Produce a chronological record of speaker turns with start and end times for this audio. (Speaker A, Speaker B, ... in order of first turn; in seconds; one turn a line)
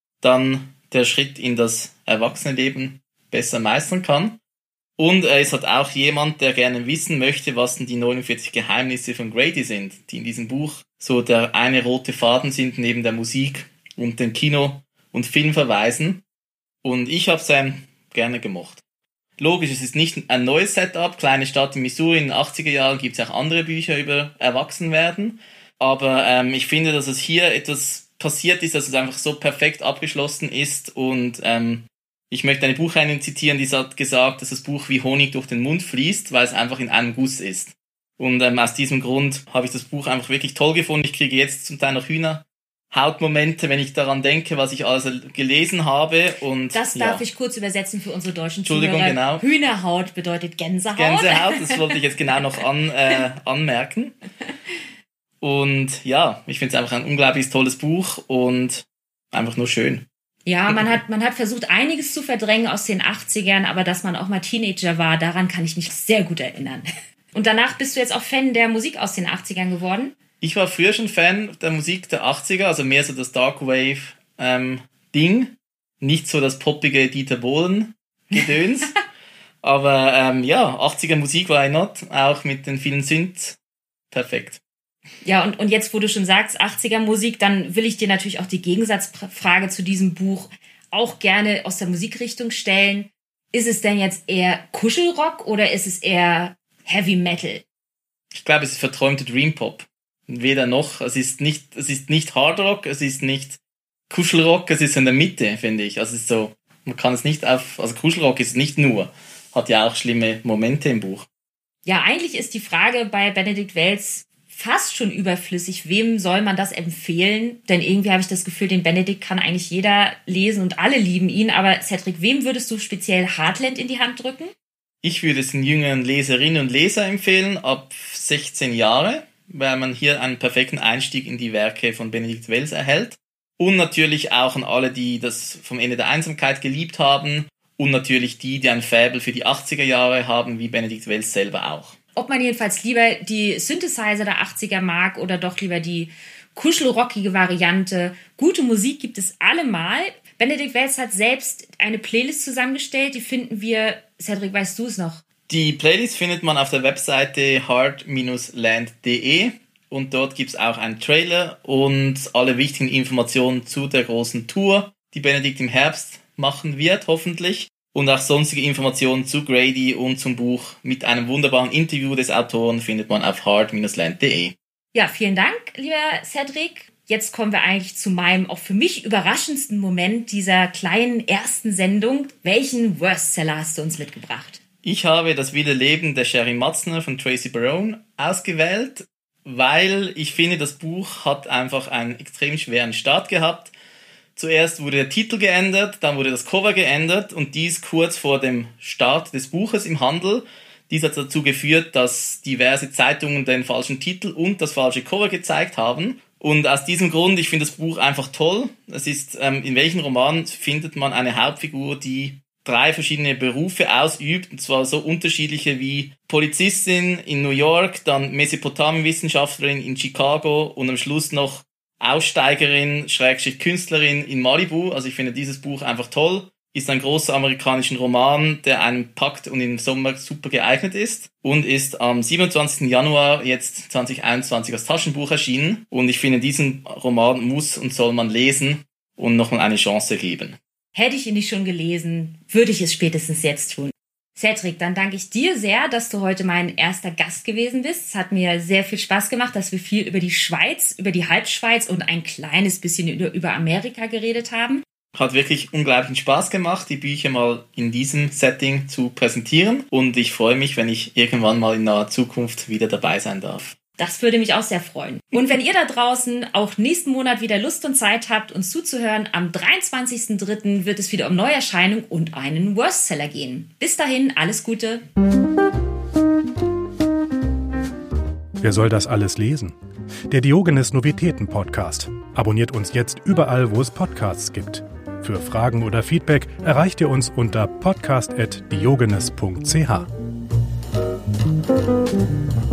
Speaker A: 0.2-4.4
Speaker A: 5.0-16.2
Speaker A: 16.8-18.8
Speaker A: 19.4-47.2
Speaker B: 46.7-52.5
Speaker A: 48.7-49.4
Speaker A: 50.9-54.2
Speaker A: 55.4-60.1
Speaker B: 60.5-70.2
Speaker A: 70.4-78.9
Speaker A: 79.6-83.6
Speaker A: 84.1-84.6
Speaker B: 85.2-97.6
Speaker A: 98.3-111.3
Speaker B: 111.8-124.5
Speaker A: 125.0-142.0
Speaker B: 142.2-155.2
Speaker A: 155.5-174.6
Speaker B: 174.9-184.6
Speaker A: 184.8-193.7
Speaker A: 194.3-240.6
Speaker B: 240.9-254.8
Speaker A: 255.2-263.8
Speaker B: 264.0-275.0
Speaker C: 278.6-279.8
Speaker C: 280.3-290.1